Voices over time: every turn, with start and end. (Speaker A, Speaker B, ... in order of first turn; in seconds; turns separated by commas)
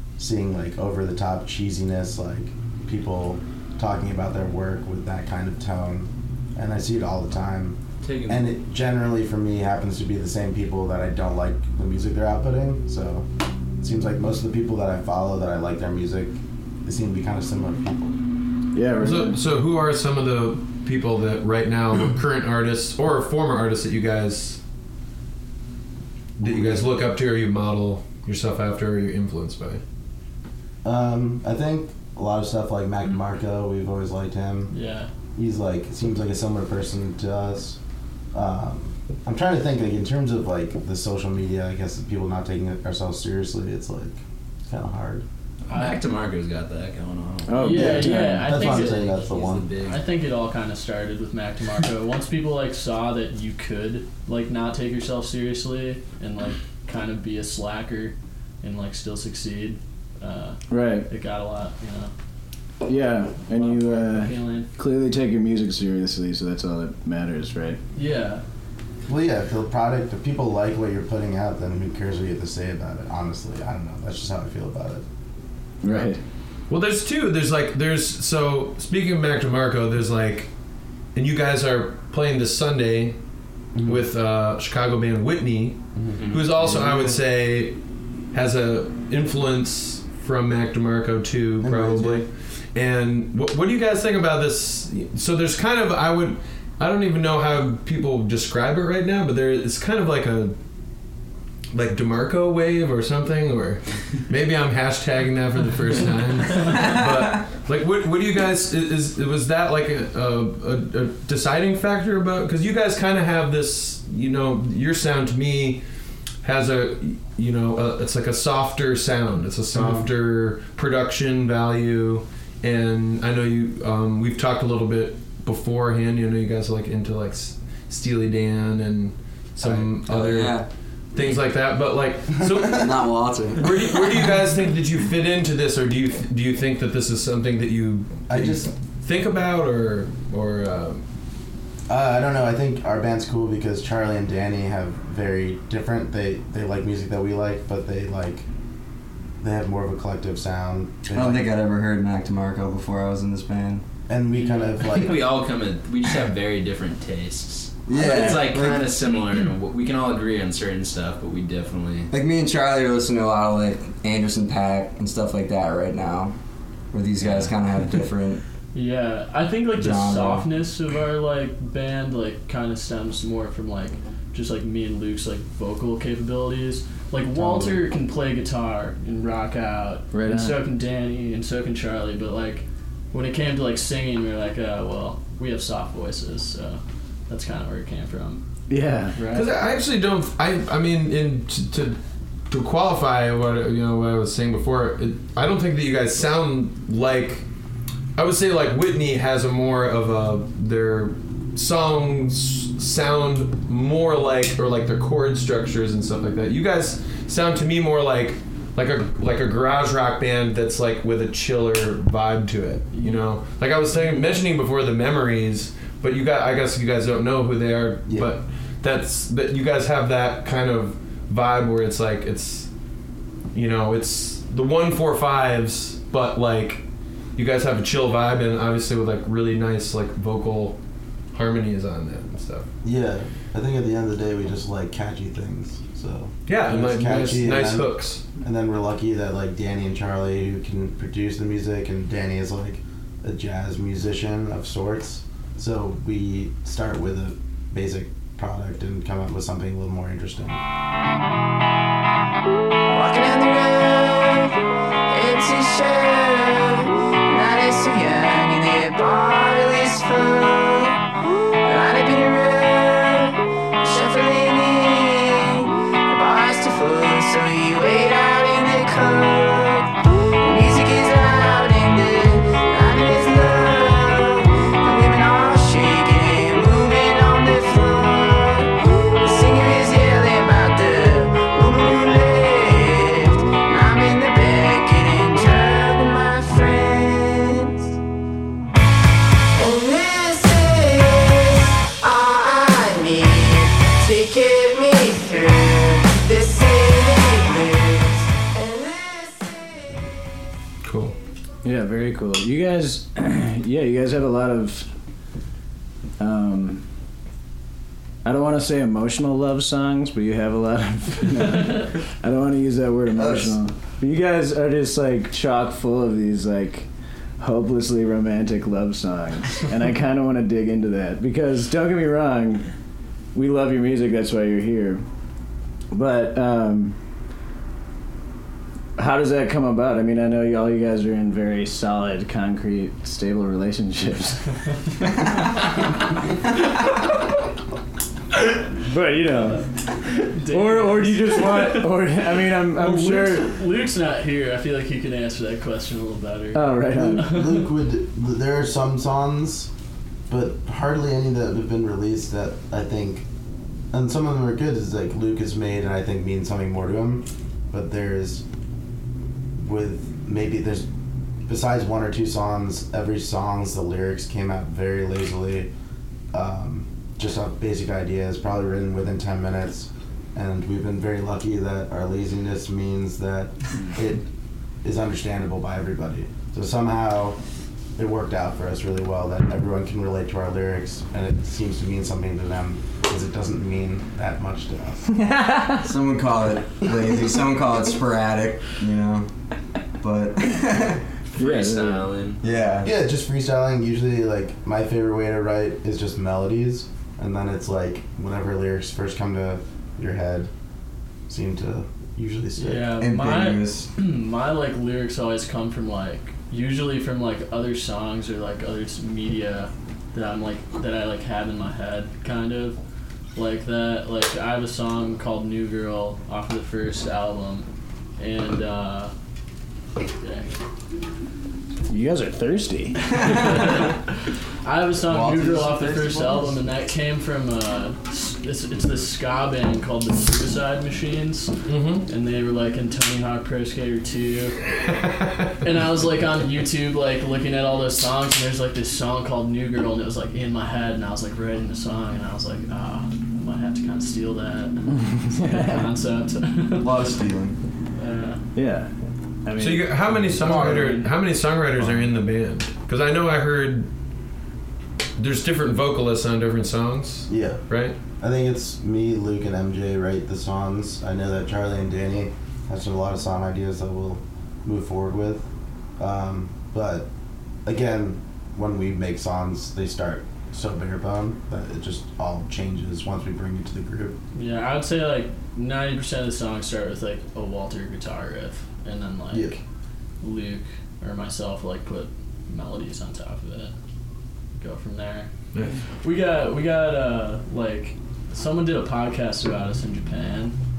Speaker A: 0.2-13.2, Speaker B: 8.0-8.5, Speaker A: 13.8-18.2, Speaker C: 18.7-19.4, Speaker D: 19.0-24.6, Speaker D: 26.4-29.8, Speaker A: 26.4-26.9, Speaker A: 30.8-34.7, Speaker E: 34.7-35.1, Speaker A: 35.4-37.8, Speaker A: 38.3-45.2, Speaker B: 45.7-47.8, Speaker E: 45.7-46.0, Speaker C: 47.5-48.5, Speaker E: 47.6-49.1, Speaker A: 47.7-49.7, Speaker B: 48.5-50.0, Speaker E: 49.8-62.1, Speaker C: 60.7-61.1, Speaker C: 62.9-67.8, Speaker E: 63.5-64.7, Speaker E: 67.9-68.4, Speaker A: 69.1-75.0, Speaker C: 75.8-76.2, Speaker D: 76.7-80.5, Speaker D: 81.1-83.2, Speaker A: 83.7-84.1, Speaker D: 83.8-87.8, Speaker A: 85.9-87.0, Speaker B: 86.2-87.1, Speaker D: 88.3-100.6, Speaker A: 91.6-92.2, Speaker D: 101.7-115.8, Speaker D: 116.4-130.6, Speaker A: 119.7-120.1, Speaker F: 129.6-130.7, Speaker D: 131.1-141.0, Speaker F: 132.7-133.9, Speaker A: 138.3-138.7, Speaker A: 141.9-148.4, Speaker A: 149.4-151.5, Speaker F: 151.1-153.8, Speaker A: 154.1-155.2, Speaker B: 154.7-162.1, Speaker F: 157.9-158.9, Speaker F: 162.1-166.3, Speaker F: 166.9-168.4, Speaker B: 167.2-167.5, Speaker E: 168.7-188.4, Speaker F: 169.7-170.5, Speaker C: 177.3-177.8, Speaker C: 180.1-180.6, Speaker C: 188.7-189.2, Speaker E: 189.1-189.5, Speaker D: 189.3-192.0, Speaker D: 192.5-197.4, Speaker D: 198.2-222.7, Speaker E: 212.9-213.3, Speaker E: 213.9-214.4, Speaker D: 223.5-226.8, Speaker D: 227.3-230.8, Speaker D: 231.3-232.7, Speaker A: 232.8-250.6, Speaker D: 236.5-238.2, Speaker G: 252.9-254.6, Speaker G: 255.1-261.1, Speaker G: 261.6-287.9, Speaker G: 289.5-299.9, Speaker D: 300.8-301.1, Speaker C: 301.6-304.9, Speaker C: 306.2-306.8, Speaker C: 308.2-316.9, Speaker F: 313.1-313.6, Speaker C: 317.4-322.6, Speaker C: 323.3-325.0, Speaker C: 325.9-327.0, Speaker C: 329.0-334.4, Speaker C: 338.8-339.7, Speaker E: 340.1-347.7, Speaker C: 340.2-343.5, Speaker C: 346.5-347.3, Speaker A: 346.9-349.7, Speaker A: 350.3-353.2, Speaker A: 353.9-358.4, Speaker A: 359.6-360.9, Speaker A: 361.5-365.7, Speaker A: 366.3-374.2, Speaker A: 374.8-377.4, Speaker A: 378.0-385.1, Speaker C: 385.2-385.8, Speaker F: 385.8-389.3, Speaker F: 390.0-391.0, Speaker B: 391.3-392.4, Speaker C: 391.4-392.1, Speaker F: 392.4-392.9, Speaker A: 392.8-400.5, Speaker A: 401.3-402.9, Speaker E: 402.6-412.8, Speaker F: 403.0-403.9, Speaker E: 413.3-417.6, Speaker E: 418.2-419.1, Speaker E: 420.2-420.5, Speaker C: 421.9-423.0, Speaker E: 423.1-424.0, Speaker F: 423.2-423.8, Speaker E: 424.6-434.6, Speaker F: 425.0-426.6, Speaker D: 431.7-432.1, Speaker E: 435.6-447.1, Speaker C: 444.9-445.8, Speaker F: 446.8-447.6, Speaker E: 447.9-448.4, Speaker C: 448.5-448.9, Speaker C: 449.4-450.8, Speaker D: 449.6-453.9, Speaker E: 450.3-451.1, Speaker D: 455.2-457.9, Speaker A: 457.3-457.7, Speaker A: 458.2-465.5, Speaker A: 466.0-467.1, Speaker A: 467.6-474.2, Speaker E: 474.3-479.6, Speaker A: 479.3-479.6, Speaker E: 480.2-483.7, Speaker E: 484.6-485.3, Speaker E: 486.0-490.6